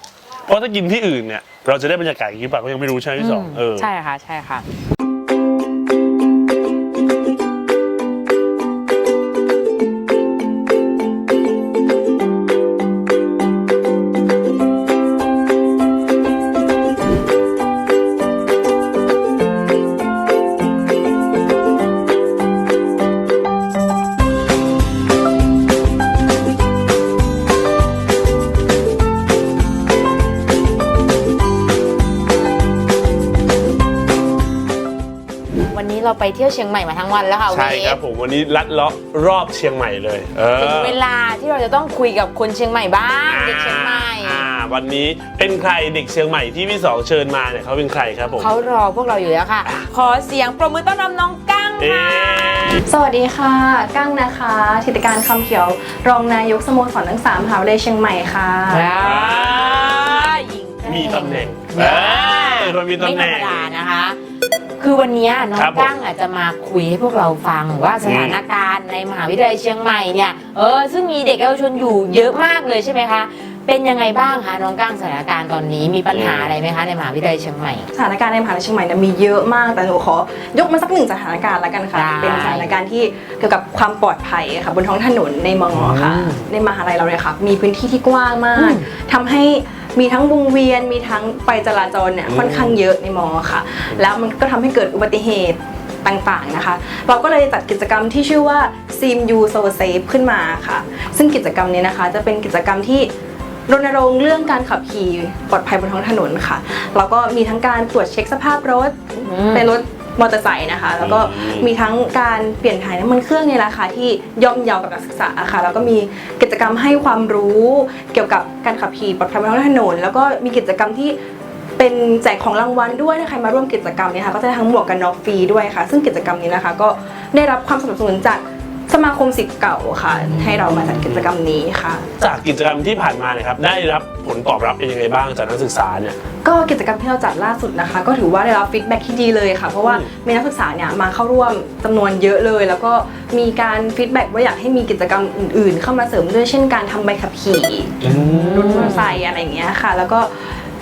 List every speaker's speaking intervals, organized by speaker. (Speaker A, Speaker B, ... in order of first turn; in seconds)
Speaker A: 0.5-3.9, 37.5-41.0, 43.3-48.5, 51.8-52.8, 59.0-63.6, 65.6-65.9, 68.1-68.4, 76.1-76.5, 82.2-82.7, 85.7-86.5, 92.3-92.8, 111.0-111.7, 132.2-136.2, 139.8-140.1, 148.0-149.0
Speaker B: 3.2-4.7, 35.7-38.0, 40.5-44.5, 48.3-52.8, 58.7-64.2, 64.8-77.9, 81.9-82.7, 88.6-88.9, 109.2-109.7, 148.1-149.2
Speaker C: 52.8-59.0, 77.9-103.1, 103.7-121.2, 121.8-132.1, 136.4-148.0, 148.5-150.6